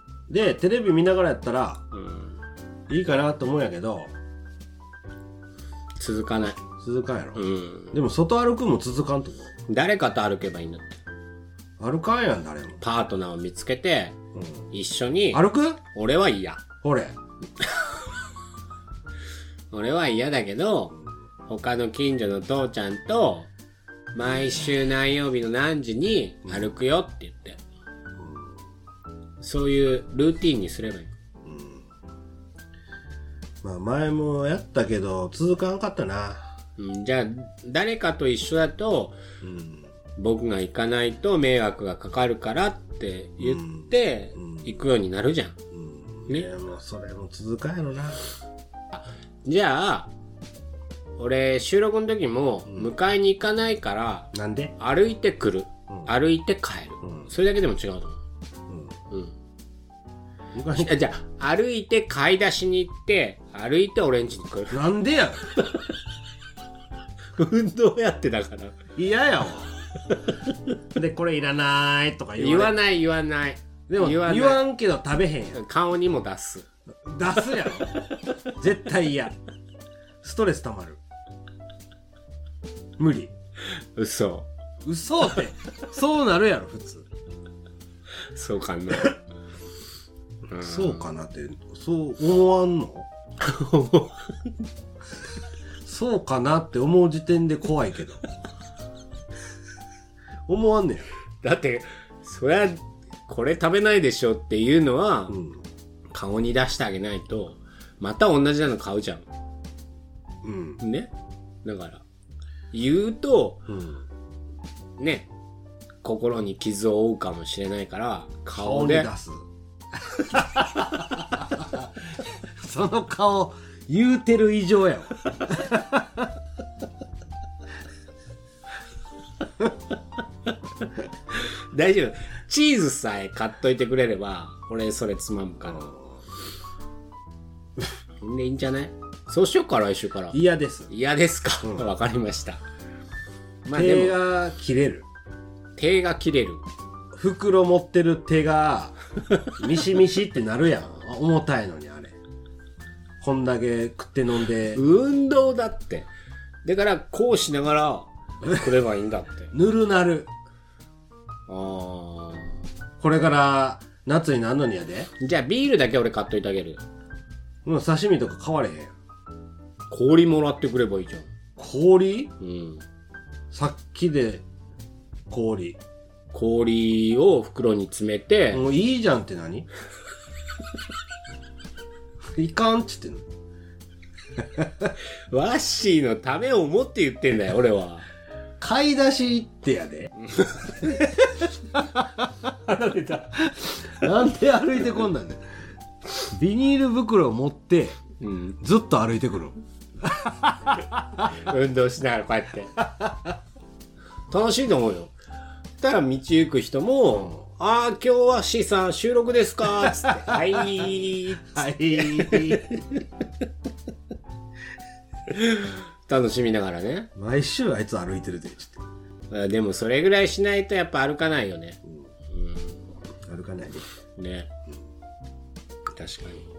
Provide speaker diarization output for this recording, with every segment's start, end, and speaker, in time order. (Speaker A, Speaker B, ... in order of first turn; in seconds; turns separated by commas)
Speaker A: 0.3-1.8, Speaker B: 1.9-2.4, Speaker A: 2.9-4.1, Speaker B: 6.0-6.6, Speaker A: 6.8-9.5, Speaker B: 7.3-7.9, Speaker B: 9.7-11.0, Speaker A: 11.8-12.8, Speaker B: 12.8-14.2, Speaker B: 14.7-16.6, Speaker A: 15.3-15.8, Speaker A: 16.8-17.2, Speaker B: 19.7-20.9, Speaker B: 21.5-23.5, Speaker B: 24.1-27.6, Speaker A: 28.2-28.5, Speaker B: 29.4-31.1, Speaker A: 31.4-31.8, Speaker A: 33.6-36.5, Speaker B: 36.8-39.2, Speaker A: 39.4-39.9, Speaker B: 40.2-45.5, Speaker A: 43.4-43.9, Speaker A: 45.7-48.2, Speaker B: 48.9-50.1, Speaker B: 51.2-58.2, Speaker A: 52.7-52.9, Speaker A: 54.3-54.7, Speaker A: 57.0-57.3, Speaker A: 58.7-58.9, Speaker A: 60.5-61.0, Speaker B: 60.7-64.8, Speaker A: 64.7-65.5, Speaker B: 65.5-65.8, Speaker B: 67.3-68.8, Speaker A: 69.0-69.7, Speaker B: 70.1-70.4, Speaker A: 70.9-72.8, Speaker B: 72.4-74.6, Speaker A: 73.9-75.6, Speaker B: 75.5-76.7, Speaker A: 77.0-78.0, Speaker A: 78.6-79.3, Speaker A: 80.2-81.0, Speaker A: 83.0-83.3, Speaker B: 83.7-84.5, Speaker A: 84.8-87.1, Speaker B: 88.3-89.2, Speaker B: 90.5-91.0, Speaker A: 90.6-93.1, Speaker B: 93.4-94.3, Speaker A: 95.8-98.2, Speaker A: 100.5-101.1, Speaker B: 101.4-105.4, Speaker A: 105.3-105.6, Speaker B: 106.1-109.2, Speaker A: 110.4-110.8, Speaker B: 110.8-111.1, Speaker B: 111.6-112.0, Speaker B: 112.7-113.6, Speaker A: 113.7-114.0, Speaker B: 115.0-115.3, Speaker B: 116.0-119.1, Speaker A: 118.5-119.4, Speaker A: 120.0-126.3, Speaker B: 131.3-135.9, Speaker B: 138.2-142.6, Speaker A: 140.3-140.9, Speaker B: 143.7-144.2, Speaker A: 143.7-145.1, Speaker B: 145.8-146.6, Speaker A: 147.1-149.0, Speaker A: 149.5-152.1, Speaker A: 153.2-154.8, Speaker B: 154.7-156.1, Speaker B: 156.6-159.5, Speaker A: 159.5-160.3, Speaker B: 161.5-162.5, Speaker A: 163.0-165.1, Speaker B: 165.2-166.8, Speaker A: 167.6-168.9, Speaker B: 169.9-171.3, Speaker A: 171.6-172.3, Speaker B: 172.4-172.8, Speaker A: 173.5-174.4, Speaker A: 175.3-175.8, Speaker B: 176.3-178.6, Speaker A: 178.5-179.7, Speaker A: 182.2-183.2, Speaker B: 185.3-188.1, Speaker A: 188.6-190.1, Speaker A: 190.8-195.4, Speaker A: 196.2-198.0, Speaker B: 198.2-198.6, Speaker A: 198.6-200.9, Speaker B: 201.2-202.8, Speaker A: 202.9-203.3, Speaker B: 204.3-205.1, Speaker B: 205.8-213.0, Speaker A: 209.8-210.9, Speaker A: 211.4-212.8, Speaker B: 215.3-217.1, Speaker A: 217.1-218.8, Speaker B: 219.3-221.8, Speaker B: 222.3-222.8, Speaker A: 223.2-223.8, Speaker B: 224.2-224.5, Speaker B: 225.9-226.4